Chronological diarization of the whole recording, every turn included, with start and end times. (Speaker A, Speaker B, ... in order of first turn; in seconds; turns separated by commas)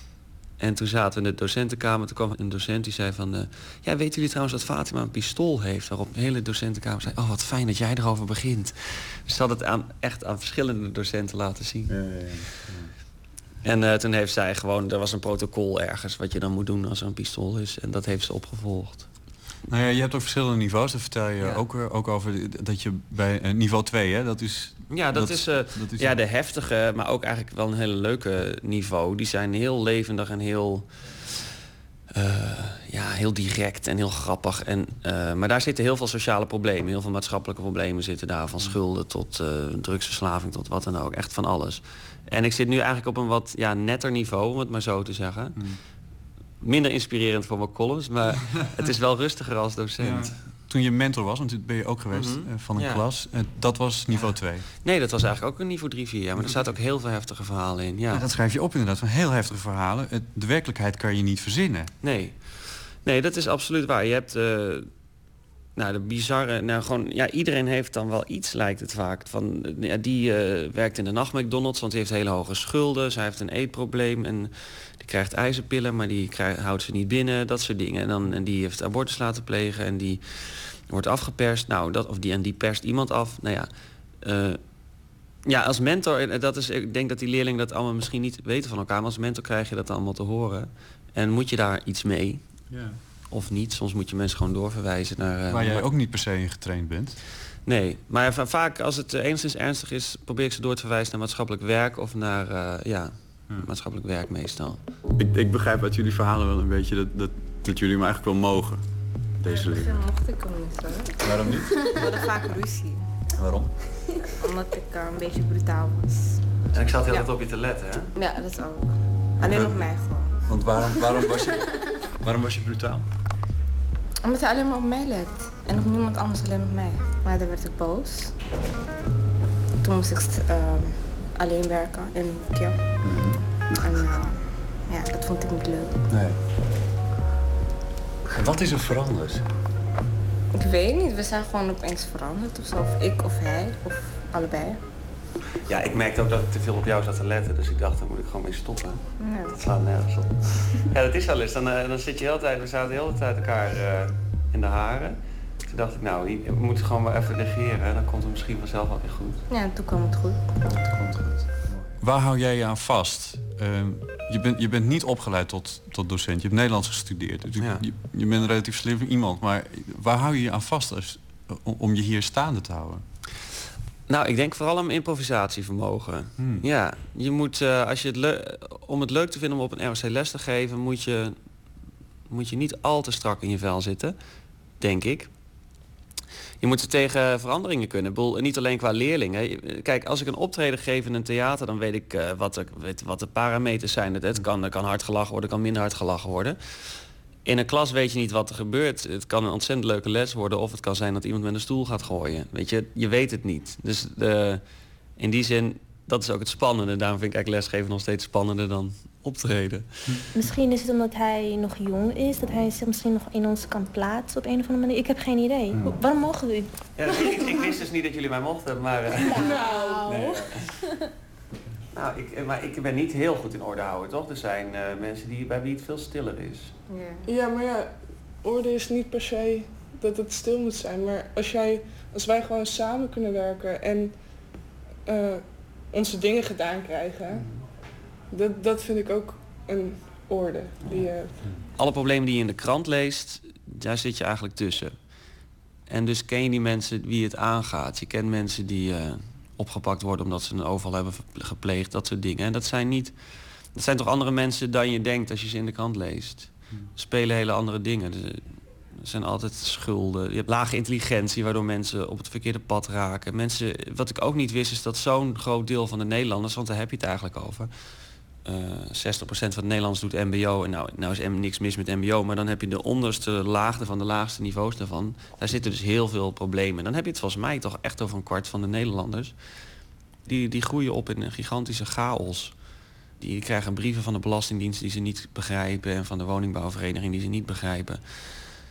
Speaker A: 0.6-12.6, Speaker B: 11.9-12.9, Speaker A: 13.6-19.1, Speaker B: 19.7-26.2, Speaker A: 21.4-21.6, Speaker A: 24.9-31.3, Speaker A: 32.1-45.8, Speaker A: 46.6-50.4, Speaker B: 48.5-48.7, Speaker B: 50.0-54.7, Speaker A: 52.1-53.1, Speaker A: 54.1-58.3, Speaker B: 56.4-56.8, Speaker B: 58.1-61.9, Speaker A: 62.0-64.9, Speaker A: 65.8-84.6, Speaker A: 85.5-92.5, Speaker B: 92.7-93.0, Speaker A: 93.3-95.9, Speaker B: 95.5-97.2, Speaker A: 97.7-104.8, Speaker B: 105.1-108.8, Speaker B: 109.4-110.0, Speaker C: 109.5-113.2, Speaker B: 111.2-111.8, Speaker B: 113.3-113.7, Speaker C: 114.4-116.4, Speaker A: 116.7-118.1, Speaker C: 117.1-117.3, Speaker C: 118.2-121.5, Speaker B: 119.4-119.8, Speaker B: 120.5-123.1, Speaker C: 124.2-128.3, Speaker C: 129.8-132.9, Speaker B: 133.0-133.5, Speaker C: 133.8-136.0, Speaker B: 136.1-136.4, Speaker B: 138.3-139.5, Speaker C: 140.5-144.8, Speaker A: 145.7-159.4, Speaker C: 149.2-149.6, Speaker C: 159.5-160.5, Speaker B: 160.7-173.0, Speaker A: 167.5-167.8, Speaker A: 174.1-181.4, Speaker B: 176.4-176.7, Speaker A: 182.3-184.2, Speaker A: 184.8-185.3, Speaker A: 186.6-196.6, Speaker A: 197.4-210.2, Speaker D: 210.3-216.7, Speaker B: 215.7-216.0, Speaker A: 217.0-219.4, Speaker D: 219.2-220.2, Speaker E: 219.4-220.2, Speaker B: 220.1-220.3, Speaker A: 220.1-220.6, Speaker A: 221.9-226.8, Speaker C: 226.9-227.2, Speaker E: 227.2-234.2, Speaker E: 235.1-237.5, Speaker A: 237.3-237.6, Speaker E: 238.3-241.4, Speaker A: 241.8-245.0, Speaker A: 245.9-267.8, Speaker A: 268.4-279.4, Speaker A: 280.2-282.6, Speaker A: 283.2-288.4